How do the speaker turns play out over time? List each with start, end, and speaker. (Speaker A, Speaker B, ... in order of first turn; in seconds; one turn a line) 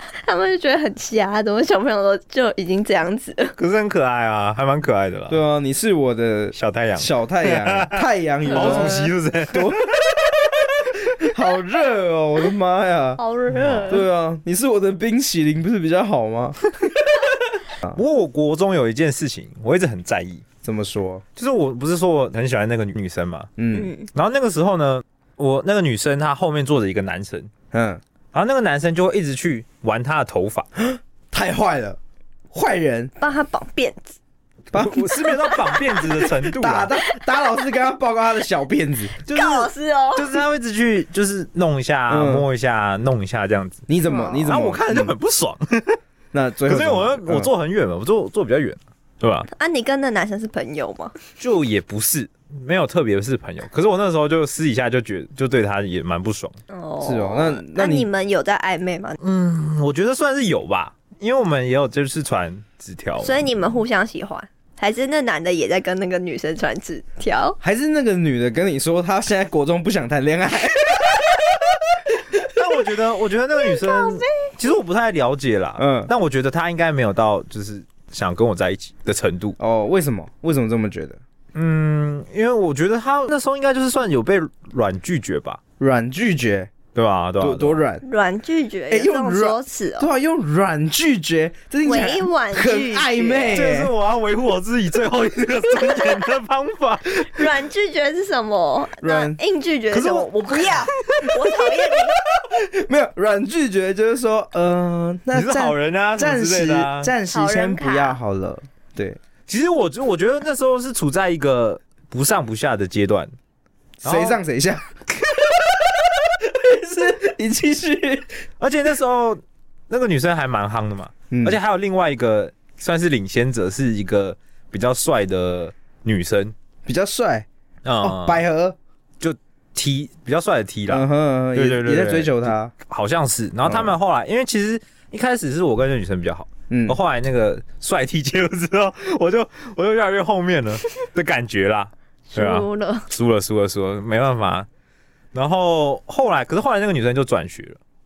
Speaker A: 0.2-3.5
Speaker B: 3.6-5.4
Speaker C: 5.3-9.9
Speaker B: 6.5-10.6
Speaker A: 8.5-9.1
Speaker C: 11.2-13.2
Speaker A: 13.2-14.0
Speaker B: 13.5-14.0
Speaker C: 13.9-17.3
Speaker B: 17.9-20.4
Speaker C: 20.6-21.2
Speaker B: 21.4-23.5
Speaker C: 23.6-23.9
Speaker A: 23.7-24.1
Speaker B: 24.1-27.5
Speaker C: 27.7-28.0
Speaker B: 28.3-30.7
Speaker C: 30.8-32.0
Speaker C: 32.5-33.1
Speaker A: 33.2-34.2
Speaker C: 34.7-35.2
Speaker B: 34.7-36.9
Speaker C: 36.3-39.1
Speaker B: 39.2-43.9
Speaker A: 39.3-40.3
Speaker C: 42.1-42.5
Speaker C: 43.9-45.1
Speaker A: 44.1-44.4
Speaker B: 44.4-46.0
Speaker C: 46.3-47.5
Speaker B: 46.7-49.5
Speaker A: 49.5-51.1
Speaker B: 51.4-56.5
Speaker A: 56.7-59.2
Speaker C: 57.0-58.1
Speaker B: 59.2-63.4
Speaker A: 63.2-67.6
Speaker C: 67.6-71.6
Speaker C: 72.4-72.6
Speaker B: 72.5-79.6
Speaker A: 73.6-74.5
Speaker C: 75.8-76.1
Speaker C: 79.6-81.2
Speaker B: 81.5-85.6
Speaker C: 85.8-86.7
Speaker B: 86.9-87.8
Speaker C: 87.4-88.0
Speaker A: 88.0-90.1
Speaker C: 88.9-93.9
Speaker A: 91.8-93.6
Speaker B: 93.5-97.5
Speaker A: 97.3-102.2
Speaker C: 99.0-99.4
Speaker B: 99.9-101.3
Speaker C: 102.4-109.2
Speaker B: 105.3-107.1
Speaker A: 107.3-108.2
Speaker B: 109.5-113.3
Speaker C: 114.0-114.9
Speaker B: 114.0-114.4
Speaker C: 115.7-118.4
Speaker B: 118.6-126.5
Speaker C: 121.3-121.6
Speaker C: 126.8-127.5
Speaker B: 127.8-128.4
Speaker C: 128.0-128.8
Speaker B: 129.2-144.7
Speaker C: 130.9-132.7
Speaker C: 133.6-133.9
Speaker C: 136.7-137.0
Speaker A: 142.3-143.1
Speaker B: 145.3-147.8